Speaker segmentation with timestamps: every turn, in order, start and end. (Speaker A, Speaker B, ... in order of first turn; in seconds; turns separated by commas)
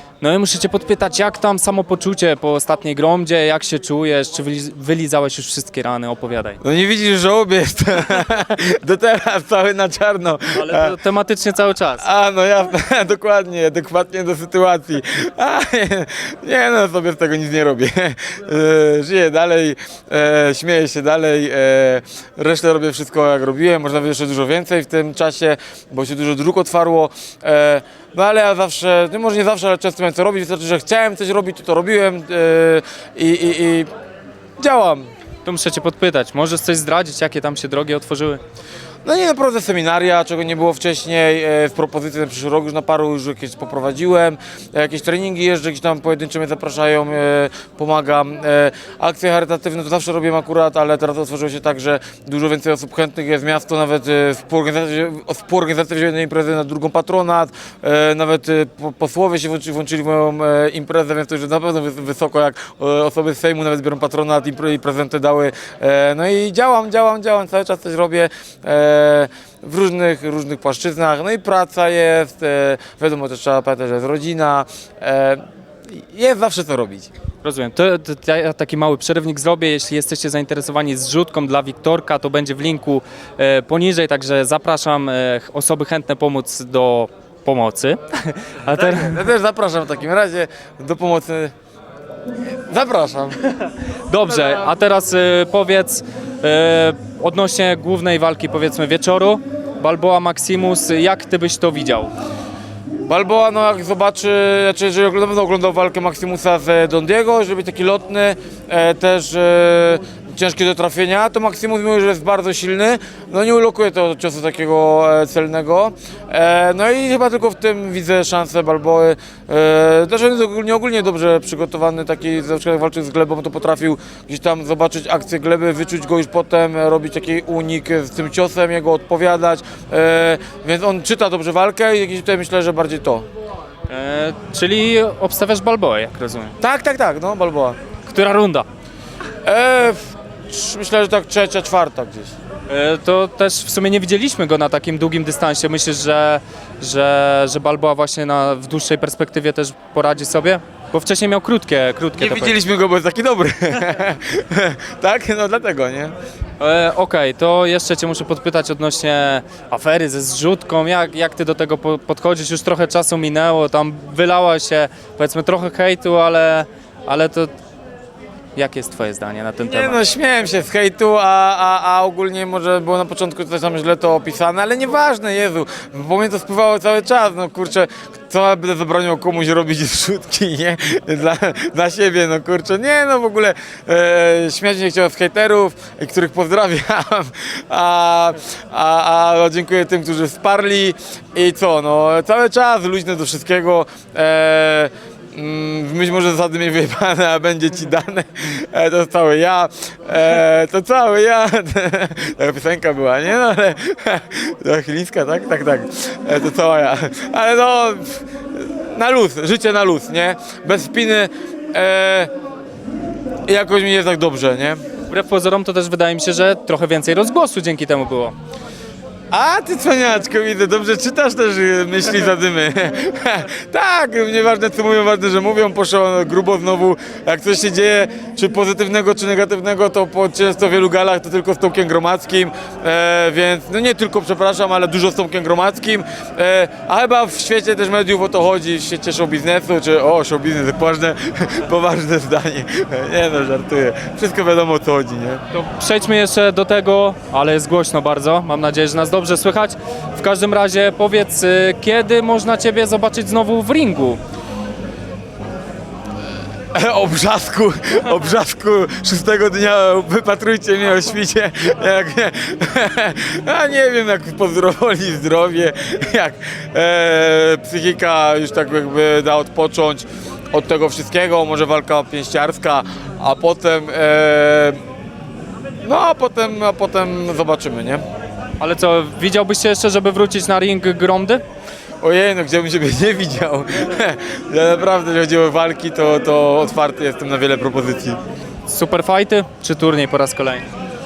Speaker A: 0.2-6.6, Speaker B: 6.6-10.9, Speaker A: 10.5-12.0, Speaker B: 12.0-33.9, Speaker B: 34.6-35.1, Speaker A: 35.4-38.4, Speaker B: 39.0-77.1, Speaker A: 77.4-89.2, Speaker B: 88.7-91.5, Speaker B: 92.7-93.5, Speaker A: 94.1-102.1, Speaker B: 103.1-133.2, Speaker A: 133.9-136.6, Speaker B: 136.6-137.8, Speaker A: 138.0-138.7, Speaker B: 139.4-142.3, Speaker A: 142.7-152.6, Speaker B: 152.2-156.1, Speaker A: 156.6-167.5, Speaker A: 168.6-170.0, Speaker B: 169.6-212.3, Speaker B: 213.5-214.8, Speaker A: 215.1-218.3, Speaker B: 219.3-245.4, Speaker A: 245.5-254.2, Speaker B: 256.7-274.8, Speaker B: 275.8-278.0, Speaker A: 278.6-281.4, Speaker B: 282.0-288.2, Speaker A: 288.7-290.6